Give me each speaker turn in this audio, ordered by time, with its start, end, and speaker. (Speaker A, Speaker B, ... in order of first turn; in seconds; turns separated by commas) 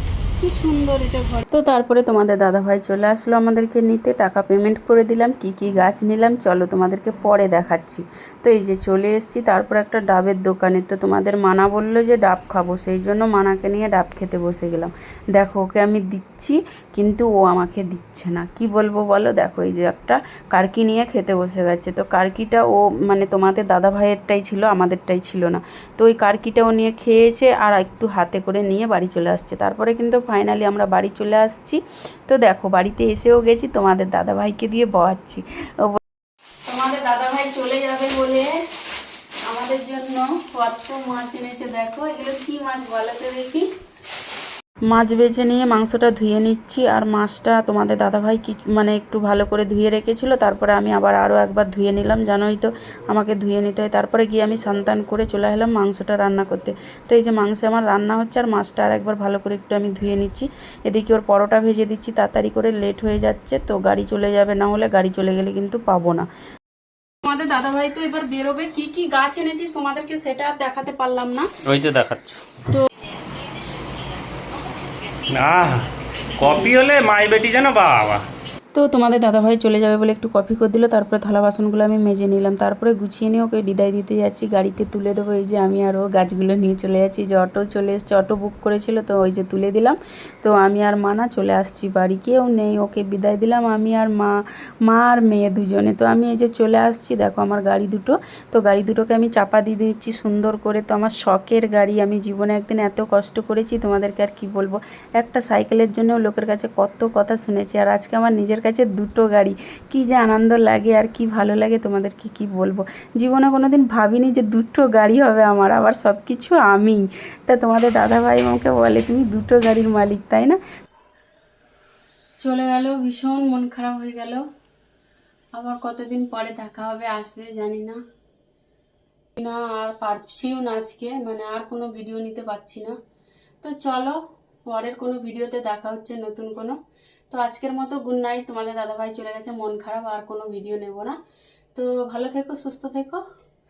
Speaker A: 0.4-1.4, Speaker B: 1.5-36.0, Speaker A: 36.7-38.5, Speaker A: 39.5-43.6, Speaker B: 44.9-66.2, Speaker A: 67.2-71.5, Speaker C: 71.7-72.4, Speaker C: 75.3-78.2, Speaker B: 78.8-94.3, Speaker B: 94.9-120.6, Speaker A: 122.4-124.4, Speaker A: 125.5-128.0, Speaker A: 129.4-132.9, Speaker A: 133.6-136.8, Speaker A: 137.3-141.1, Speaker A: 141.7-143.2